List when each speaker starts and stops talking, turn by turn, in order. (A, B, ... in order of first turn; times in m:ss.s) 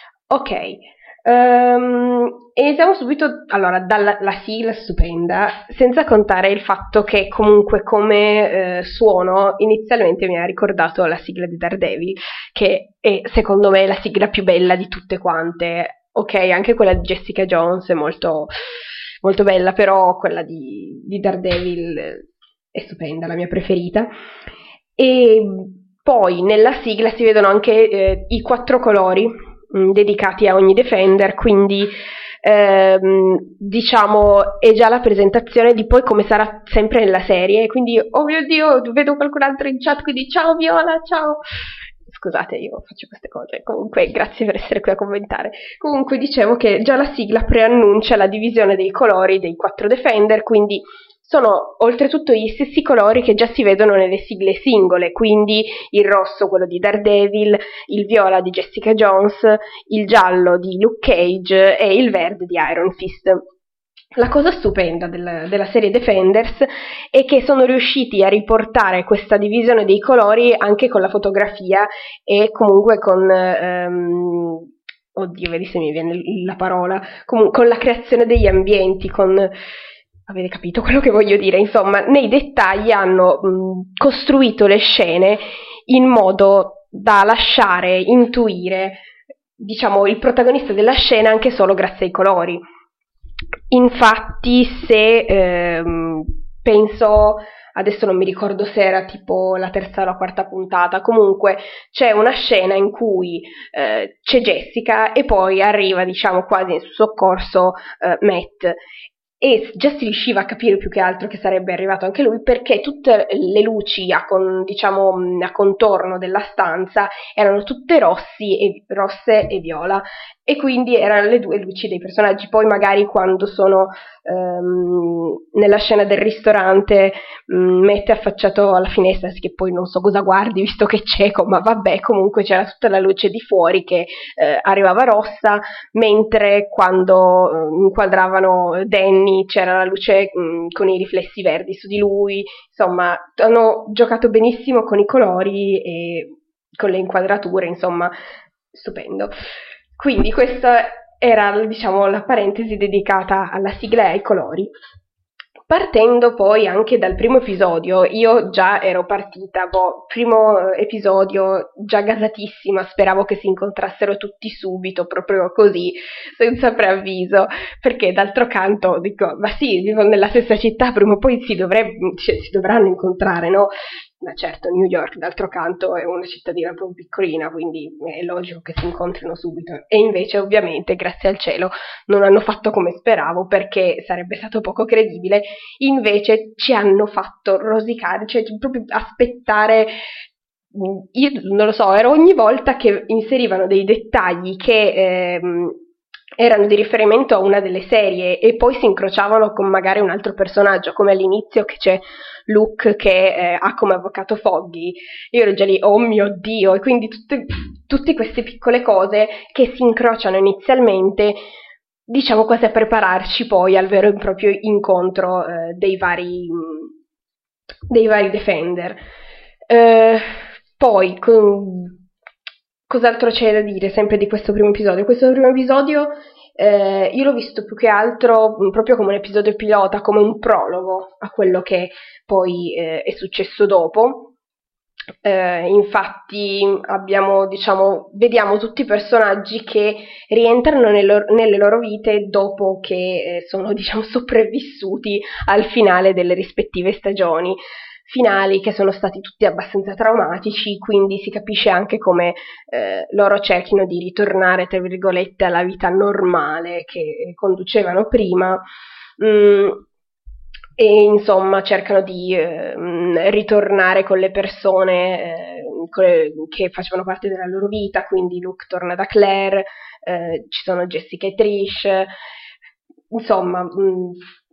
0:00.3-0:18.5 A
0:19.2-0:24.1 A
0:25.0-0:41.4 A
0:42.1-1:03.4 A
1:04.2-1:19.5 A
1:20.3-1:29.0 A
1:29.6-1:32.6 A
1:33.7-1:48.8 A
1:49.4-2:28.1 A
2:28.7-2:29.3 A
2:30.0-2:34.7 A
2:35.7-3:09.9 A
3:10.7-3:15.8 A
3:16.4-3:31.4 A
3:32.1-3:36.9 A
3:37.9-3:39.0 A
3:39.7-3:42.0 A
3:42.9-3:54.3 A
3:55.2-4:18.6 A
4:19.2-4:19.9 A
4:20.8-4:32.1 A
4:33.1-4:34.2 A